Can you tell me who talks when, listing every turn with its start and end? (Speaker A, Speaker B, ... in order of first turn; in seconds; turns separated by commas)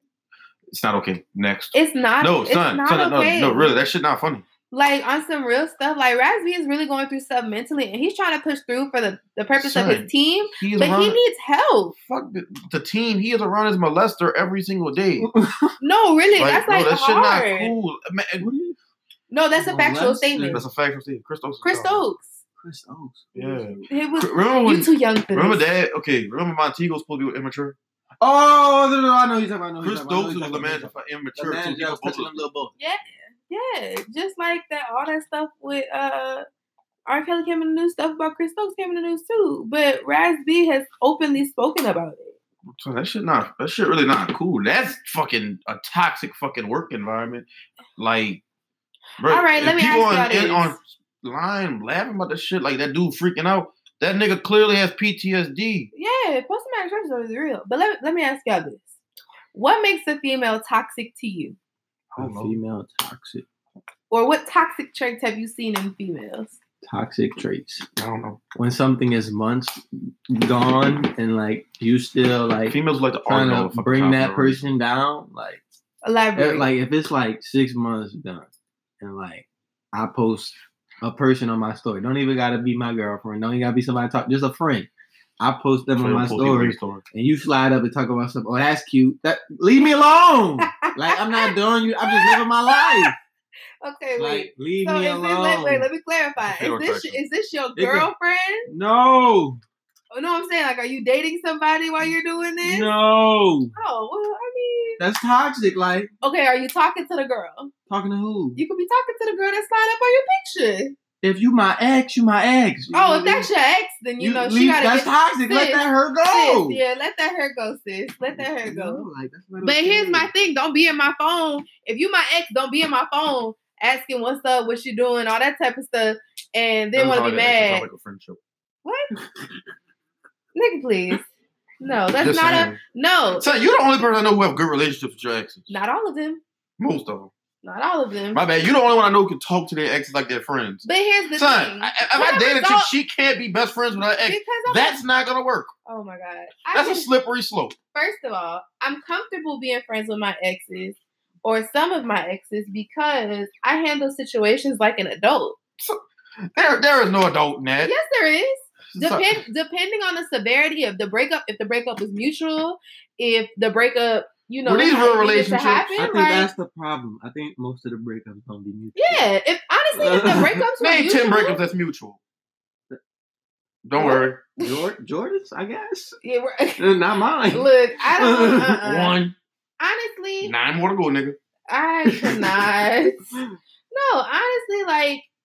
Speaker A: 0.7-4.4, Speaker B: 1.7-3.8, Speaker B: 4.7-11.9, Speaker A: 9.6-11.2, Speaker A: 12.1-15.3, Speaker C: 15.2-15.7, Speaker B: 15.8-17.7, Speaker A: 16.4-18.5, Speaker C: 18.4-18.8, Speaker B: 19.3-20.6, Speaker C: 19.6-20.6, Speaker A: 20.5-22.0, Speaker B: 21.6-22.4, Speaker C: 22.6-23.9, Speaker A: 23.4-27.8, Speaker B: 23.9-25.6, Speaker C: 28.2-32.7, Speaker A: 29.8-32.5, Speaker B: 32.8-36.5, Speaker B: 37.1-42.4, Speaker A: 42.7-47.5, Speaker A: 48.0-48.4, Speaker A: 49.2-55.9, Speaker B: 49.3-50.8, Speaker B: 55.9-58.9, Speaker B: 59.5-61.6, Speaker A: 62.1-62.5, Speaker C: 62.2-63.5, Speaker B: 64.1-66.6, Speaker C: 66.8-67.9, Speaker A: 68.0-68.5, Speaker C: 68.5-75.6, Speaker A: 72.7-74.6, Speaker B: 76.0-76.7, Speaker C: 76.4-78.5, Speaker C: 79.0-93.1, Speaker A: 86.0-87.0, Speaker B: 90.6-93.2, Speaker B: 93.8-98.7, Speaker C: 94.2-95.9, Speaker A: 96.4-97.2, Speaker C: 97.8-98.1, Speaker C: 98.7-99.6, Speaker B: 100.1-102.9, Speaker C: 102.6-103.7, Speaker B: 103.8-105.0, Speaker C: 105.0-106.1, Speaker B: 106.2-107.7, Speaker C: 107.9-108.6, Speaker B: 108.6-111.0, Speaker C: 111.2-113.5, Speaker B: 112.9-119.1, Speaker C: 114.2-116.8, Speaker C: 118.3-120.3, Speaker B: 119.6-127.9, Speaker A: 127.0-128.4, Speaker B: 128.8-129.1, Speaker B: 130.6-131.2, Speaker B: 131.8-133.6, Speaker A: 132.2-132.8, Speaker A: 133.4-135.8, Speaker B: 135.7-136.4, Speaker A: 136.8-137.3, Speaker B: 137.6-138.4, Speaker A: 138.3-145.7, Speaker B: 140.8-142.9, Speaker B: 144.2-145.0, Speaker B: 145.9-147.1, Speaker A: 146.7-147.8, Speaker B: 147.9-155.6, Speaker A: 156.6-157.9, Speaker B: 157.8-166.5, Speaker A: 158.9-159.4, Speaker A: 164.6-166.0, Speaker C: 166.0-169.3, Speaker B: 168.9-171.6, Speaker C: 169.9-170.6, Speaker A: 170.8-172.2, Speaker A: 173.8-174.4, Speaker B: 174.0-174.8, Speaker C: 174.6-176.2, Speaker B: 176.2-176.8, Speaker C: 176.8-178.9, Speaker B: 177.5-179.2, Speaker A: 178.8-179.3, Speaker B: 179.8-180.5, Speaker A: 180.4-181.4, Speaker B: 181.7-183.3, Speaker C: 182.1-182.6, Speaker B: 183.9-185.3